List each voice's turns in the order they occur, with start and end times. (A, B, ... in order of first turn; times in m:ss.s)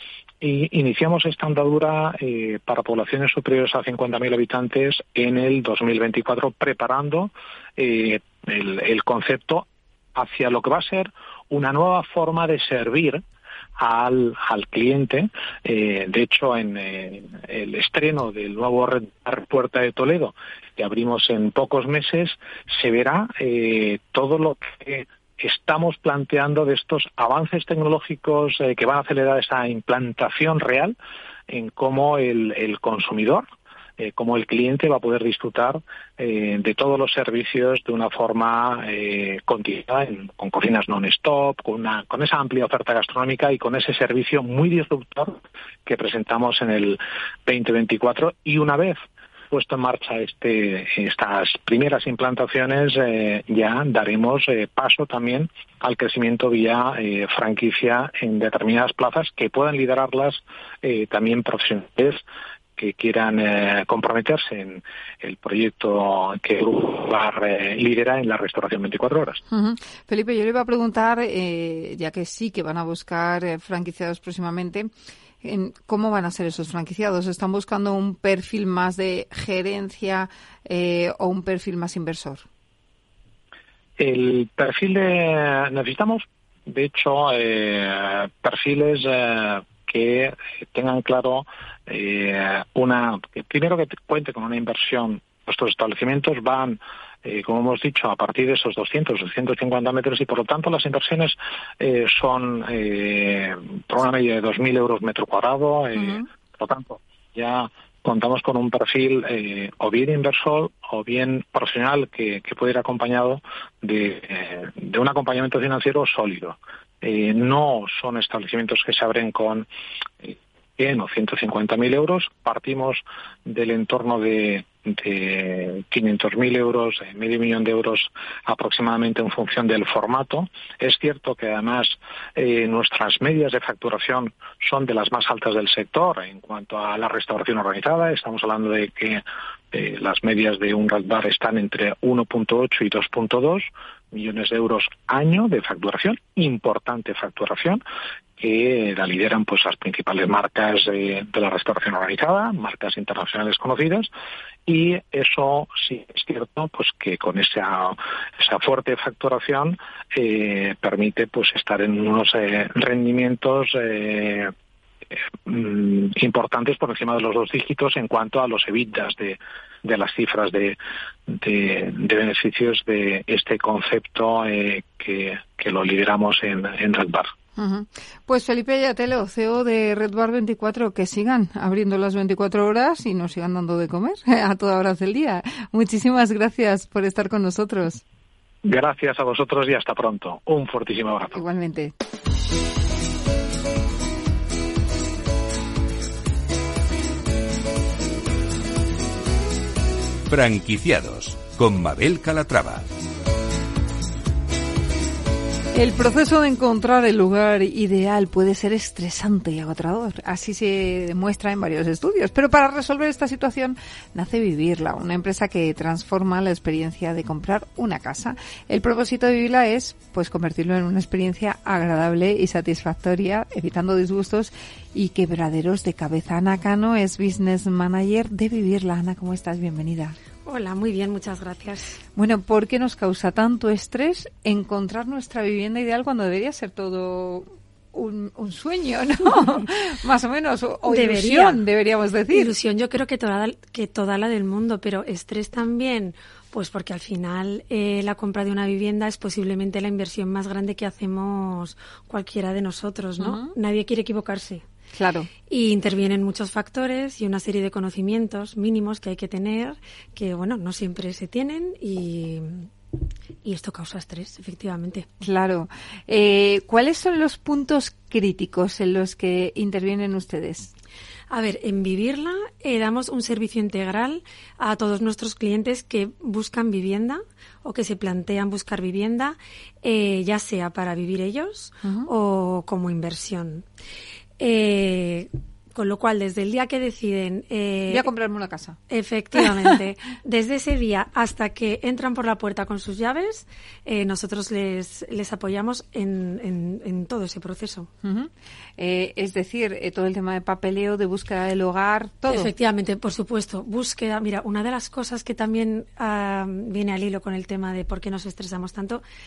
0:00.4-0:13.2 A
0:13.8-0:31.0 A
0:31.5-0:33.4 A
0:34.0-0:49.0 A
0:49.5-1:02.2 A
1:02.8-1:09.4 A
1:09.5-1:22.5 B
1:24.0-1:59.7 A
1:46.0-1:46.2 B
2:00.2-2:27.8 A
2:28.4-2:34.1 A
2:34.7-2:44.5 A
2:45.5-2:50.8 A
2:51.3-2:57.3 A
2:57.6-3:08.0 B
3:08.6-3:11.4 A
3:11.3-3:11.9 B
3:20.3-3:22.9 C
3:25.7-3:50.2 B
3:50.4-3:52.0 D
3:52.2-4:02.5 B
4:00.9-4:01.6 D
4:02.3-4:14.6 D
4:13.2-4:13.5 B
4:14.9-4:15.3 B
4:15.5-4:22.7 D
4:23.4-4:25.1 D
4:25.2-4:30.7 B
4:31.3-4:43.6 D
4:41.8-4:42.1 B
4:44.4-4:48.1 D
4:47.9-4:48.8 B
4:48.9-4:57.9 D
4:49.4-4:49.6 B
4:58.0-5:02.5 B
5:02.3-5:09.0 D